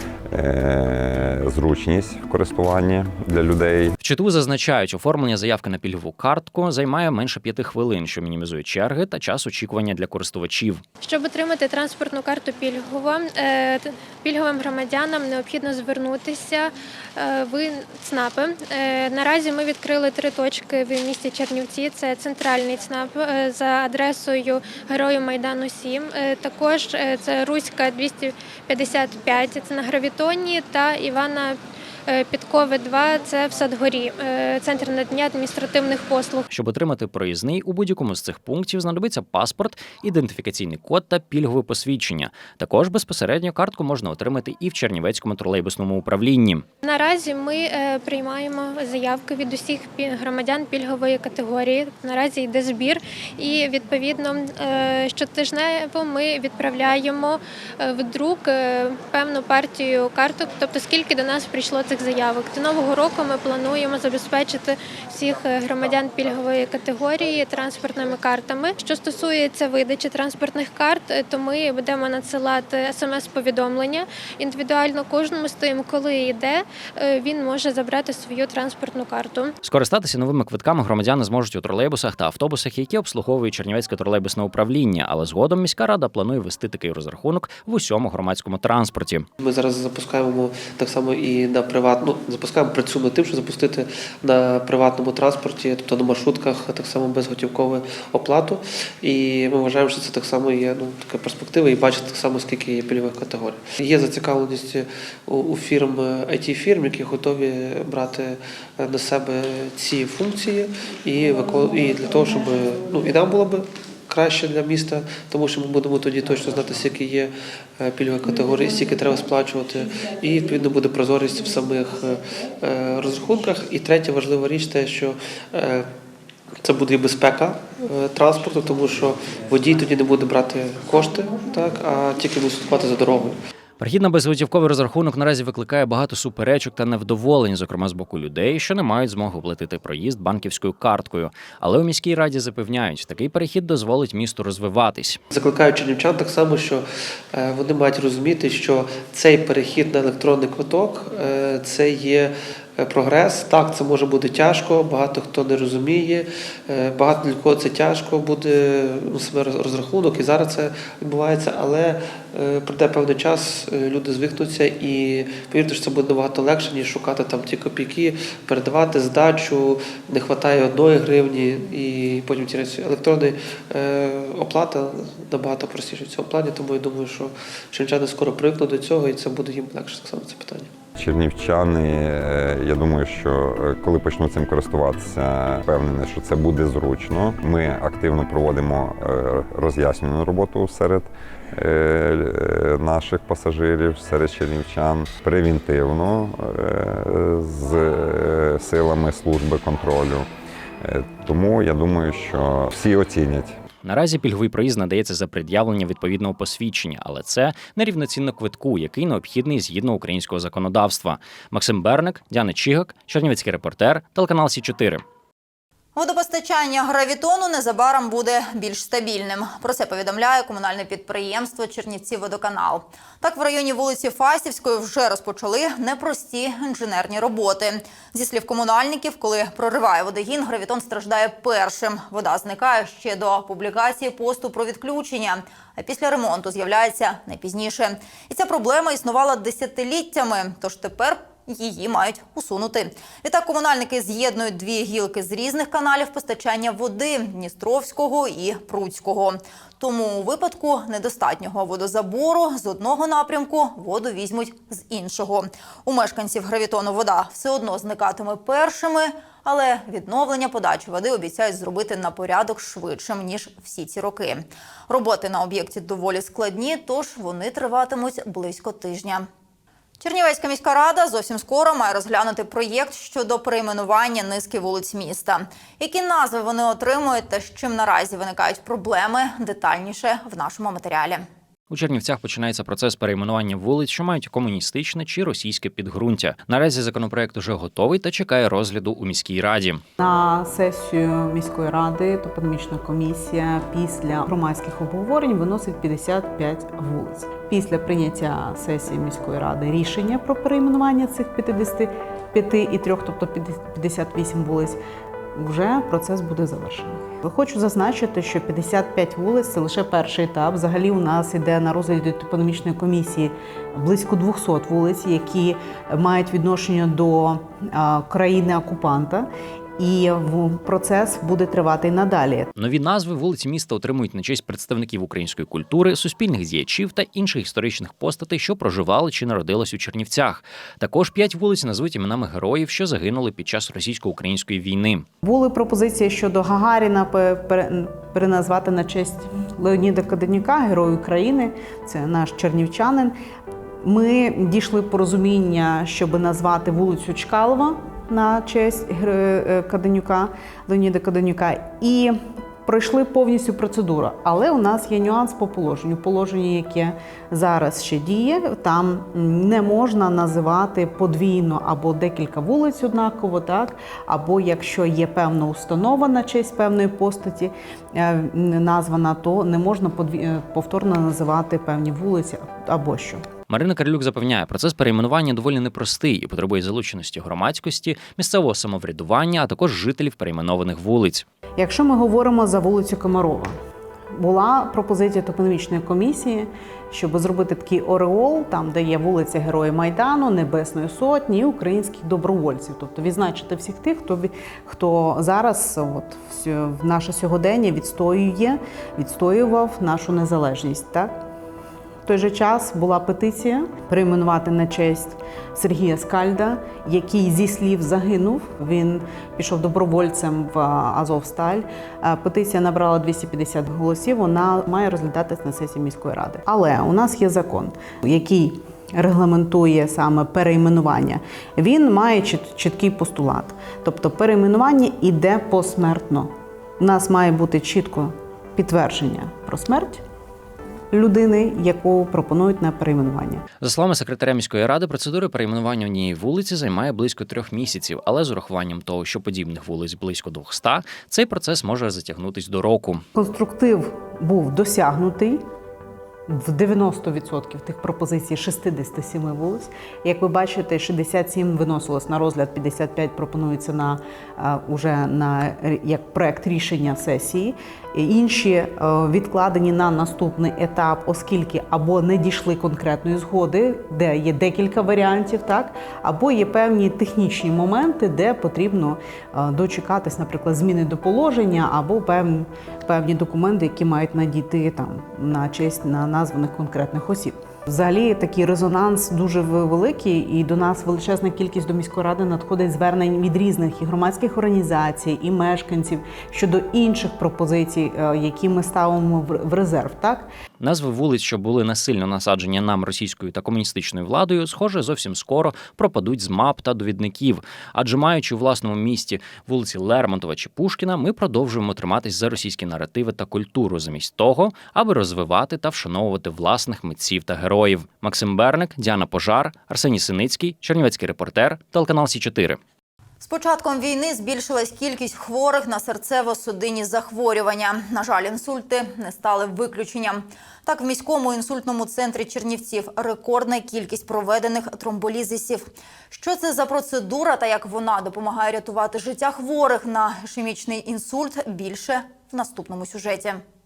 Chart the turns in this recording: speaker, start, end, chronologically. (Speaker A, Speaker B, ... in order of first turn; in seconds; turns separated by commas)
Speaker A: 0.3-4.0, Speaker B: 4.0-10.8, Speaker C: 11.0-36.4, Speaker B: 36.5-46.6, Speaker C: 46.8-79.5, Speaker B: 79.6-89.3, Speaker D: 89.4-125.9, Speaker D: 126.6-133.3, Speaker B: 133.8-145.2, Speaker D: 145.3-180.7, Speaker A: 180.9-200.3, Speaker A: 200.8-203.6, Speaker B: 203.8-215.0, Speaker E: 215.9-269.3, Speaker E: 270.0-281.3, Speaker B: 281.7-289.8, Speaker F: 290.0-304.8, Speaker F: 305.3-322.5, Speaker B: 322.5-335.1, Speaker F: 335.2-343.1, Speaker F: 343.8-373.3, Speaker B: 373.5-381.2, Speaker F: 381.6-383.6, Speaker F: 384.1-401.2, Speaker F: 402.0-430.0, Speaker F: 430.9-433.4, Speaker B: 433.6-443.0, Speaker F: 443.1-445.4, Speaker F: 446.3-490.3, Speaker B: 490.6-512.6, Speaker E: 513.2-533.4